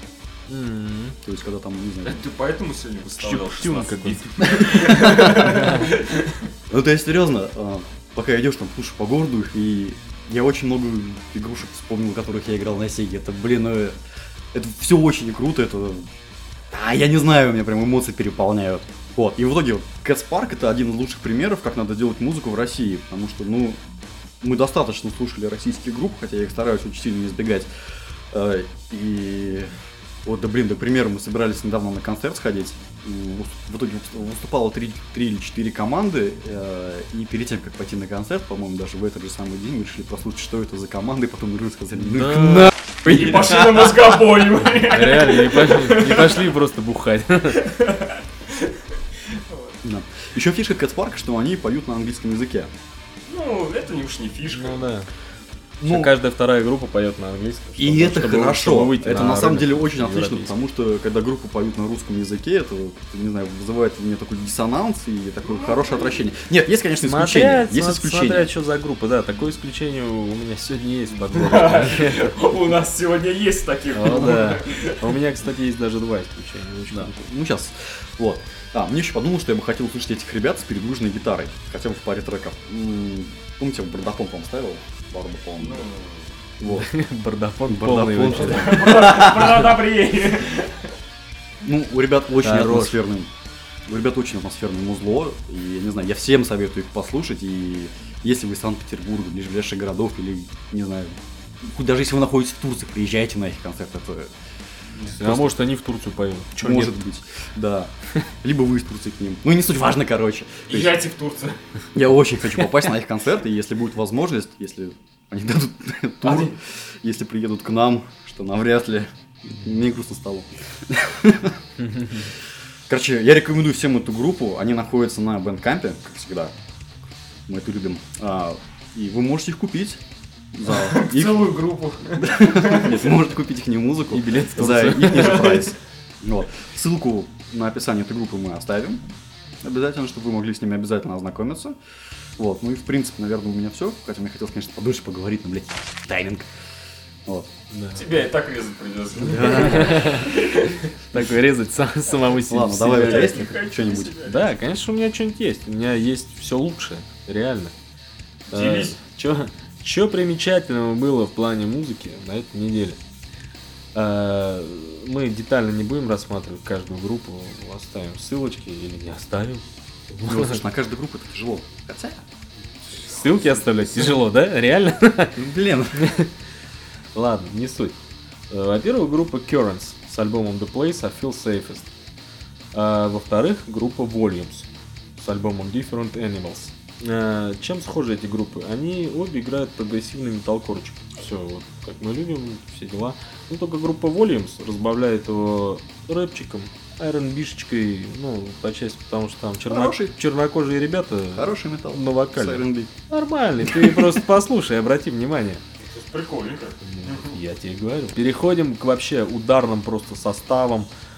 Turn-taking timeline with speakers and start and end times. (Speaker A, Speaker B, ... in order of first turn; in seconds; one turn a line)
Speaker A: 0.5-1.2
Speaker B: 1.2-2.2
Speaker C: 2.0-6.4
Speaker A: 3.2-5.9
Speaker B: 4.6-5.8
Speaker B: 6.7-14.0
Speaker B: 14.5-16.1
Speaker B: 16.7-23.8
Speaker B: 24.4-27.7
Speaker B: 28.3-29.7
Speaker B: 30.2-43.8
Speaker A: 42.0-42.7
Speaker C: 43.0-46.5
Speaker A: 44.8-47.7
Speaker C: 47.5-49.7
Speaker B: 49.8-52.7
Speaker C: 53.3-54.9
Speaker A: 54.5-55.1
Speaker B: 55.8-56.1
Speaker A: 55.8-60.6
Speaker B: 57.8-68.5
Speaker C: 65.5-66.2
Speaker A: 67.0-72.3
Speaker C: 71.3-75.1
Speaker A: 73.9-77.2
Speaker B: 76.9-85.9
Speaker C: 85.6-86.3
Speaker B: 86.6-86.9
Speaker A: 86.6-89.0
Speaker B: 87.7-89.7
Speaker C: 88.4-90.9
Speaker B: 91.6-93.3
Speaker A: 92.4-93.0
Speaker B: 93.9-104.3
Speaker A: 105.1-107.0
Speaker B: 105.2-105.6
Speaker B: 106.6-111.1
Speaker C: 110.7-111.6
Speaker B: 111.9-121.6
Speaker C: 116.2-116.5
Speaker A: 121.8-122.3
Speaker B: 122.9-126.5
Speaker B: 127.5-130.0
Speaker B: 130.5-131.6
Speaker C: 130.7-133.1
Speaker B: 132.2-139.0
Speaker A: 134.1-135.7
Speaker B: 139.6-141.8
Speaker B: 142.4-146.5
Speaker A: 147.7-148.1
Speaker C: 147.9-150.9
Speaker B: 149.2-150.2
Speaker A: 149.3-150.5
Speaker A: 151.1-153.4
Speaker B: 152.5-154.2
Speaker C: 152.8-154.6
Speaker A: 154.2-157.7
Speaker C: 158.5-159.0
Speaker A: 158.5-163.0
Speaker A: 163.9-170.6
Speaker B: 170.2-172.2
Speaker A: 173.1-175.4
Speaker C: 173.1-173.5
Speaker B: 173.8-174.2
Speaker B: 175.4-176.1
Speaker A: 175.9-176.3
Speaker A: 177.2-178.0
Speaker A: 178.5-181.9
Speaker A: 182.7-205.6
Speaker B: 199.7-200.1
Speaker B: 201.3-202.9
Speaker B: 203.6-204.2
Speaker C: 205.9-207.4
Speaker A: 206.8-210.9